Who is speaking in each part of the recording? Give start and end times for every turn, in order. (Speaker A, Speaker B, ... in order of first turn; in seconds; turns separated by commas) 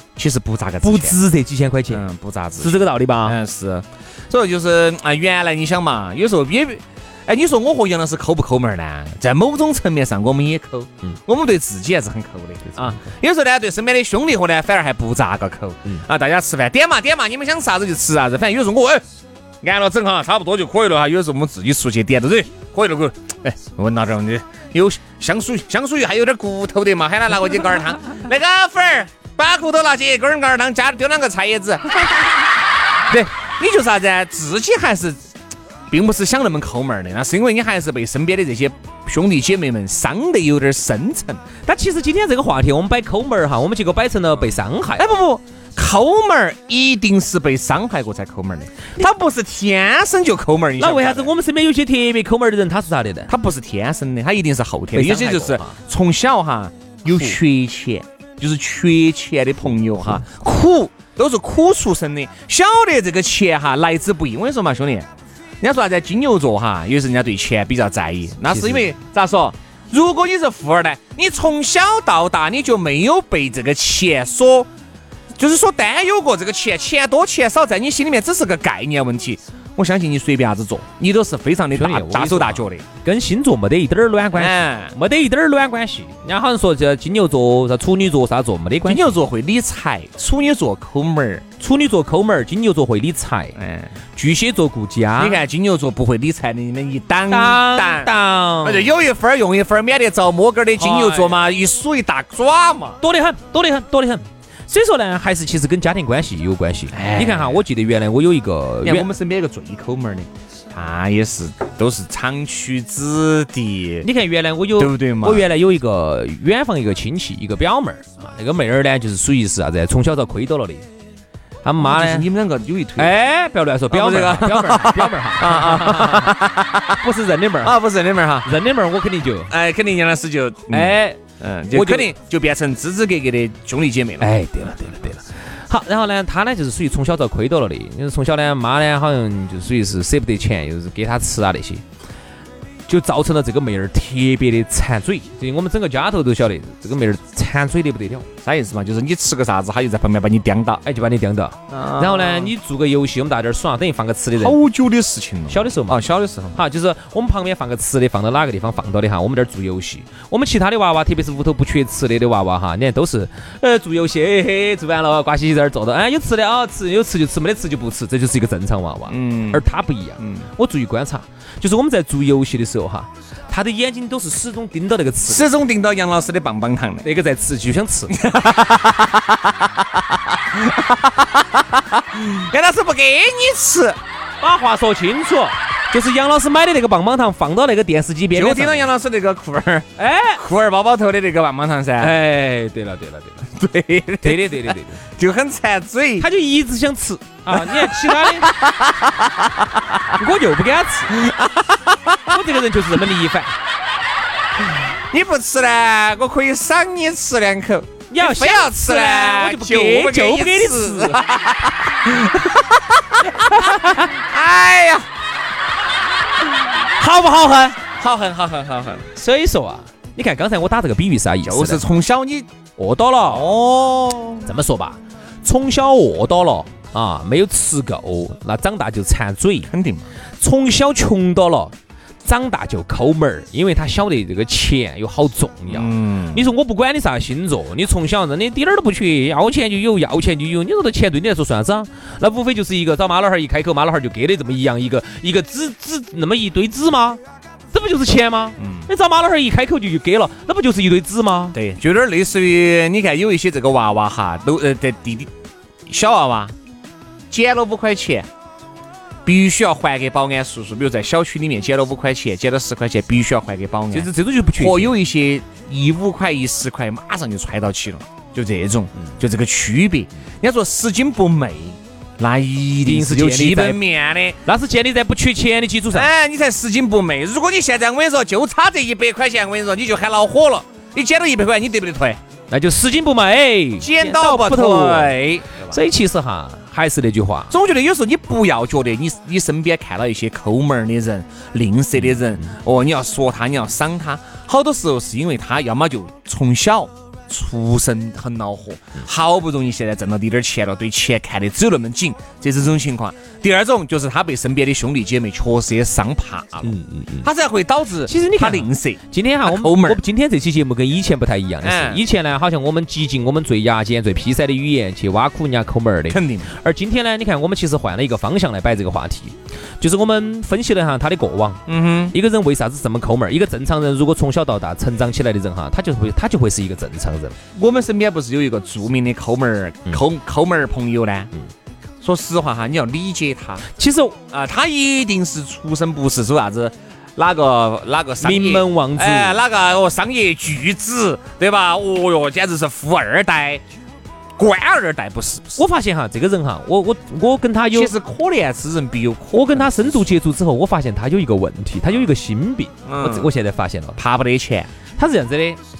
Speaker A: 0.1-1.2, Speaker B: 0.8-2.0, Speaker A: 1.9-19.0, Speaker B: 2.6-3.4, Speaker B: 12.7-13.0, Speaker A: 19.6-32.2, Speaker A: 33.1-35.2, Speaker A: 35.9-41.4, Speaker B: 41.6-45.1, Speaker A: 45.0-51.3, Speaker B: 50.8-53.3, Speaker A: 53.3-65.1, Speaker B: 54.9-55.8, Speaker B: 57.1-57.4, Speaker A: 65.6-74.7, Speaker B: 68.5-68.9, Speaker A: 75.4-82.8, Speaker B: 81.7-89.1, Speaker A: 84.3-84.9, Speaker A: 88.8-91.4, Speaker B: 91.6-93.5, Speaker A: 93.6-93.9, Speaker B: 94.2-95.4, Speaker A: 95.2-103.0, Speaker B: 97.3-98.9, Speaker B: 100.8-101.4, Speaker B: 103.0-109.1, Speaker A: 106.9-107.6, Speaker A: 108.8-114.1, Speaker B: 114.0-120.8, Speaker A: 114.8-115.5, Speaker B: 121.6-122.3, Speaker A: 121.8-123.2, Speaker B: 123.0-126.3, Speaker A: 123.9-127.0, Speaker B: 127.0-127.8, Speaker A: 127.6-128.5, Speaker B: 128.4-129.5, Speaker A: 129.5-134.3, Speaker B: 130.7-132.1, Speaker B: 134.2-141.8, Speaker B: 142.9-148.3, Speaker A: 148.4-150.8, Speaker B: 150.8-154.6, Speaker A: 151.7-152.5, Speaker A: 154.3-156.6, Speaker B: 155.5-175.5, Speaker A: 169.1-169.6, Speaker A: 170.2-170.4, Speaker A: 175.2-177.1, Speaker B: 177.0-178.2, Speaker A: 178.1-184.0, Speaker B: 184.4-188.9, Speaker A: 188.3-192.1, Speaker B: 190.0-190.4, Speaker B: 192.0-193.5, Speaker A: 193.5-196.3, Speaker B: 194.2-195.0, Speaker B: 196.2-198.5, Speaker A: 197.5-199.7, Speaker B: 200.1-201.2, Speaker A: 201.1-202.2, Speaker B: 202.3-203.5, Speaker A: 205.1-215.1, Speaker B: 208.1-211.2, Speaker B: 213.5-214.1, Speaker B: 217.0-217.8, Speaker A: 218.0-219.1, Speaker B: 219.2-221.8, Speaker A: 221.4-222.5, Speaker B: 222.8-229.7, Speaker A: 223.2-224.4, Speaker A: 229.7-230.1, Speaker B: 230.4-247.2, Speaker A: 235.7-236.4, Speaker B: 247.7-251.6, Speaker A: 248.6-248.9, Speaker A: 251.5-255.3, Speaker A: 255.8-256.5, Speaker A: 257.3-258.3, Speaker A: 259.2-274.4, Speaker B: 263.9-264.9, Speaker B: 272.8-273.8, Speaker B: 274.4-276.1, Speaker A: 275.9-282.2, Speaker B: 282.5-287.5, Speaker A: 283.8-285.8, Speaker A: 287.5-310.0, Speaker B: 306.6-307.3, Speaker B: 308.1-327.4, Speaker A: 311.6-312.0, Speaker A: 316.1-316.5, Speaker A: 321.7-322.1, Speaker A: 327.5-331.3, Speaker A: 332.0-333.6, Speaker B: 333.7-334.2, Speaker A: 334.3-343.6, Speaker B: 338.2-339.4, Speaker A: 344.4-345.6, Speaker B: 345.6-347.9, Speaker A: 347.7-350.1, Speaker B: 349.3-354.0, Speaker A: 352.9-353.3, Speaker A: 354.0-354.7, Speaker B: 355.0-355.6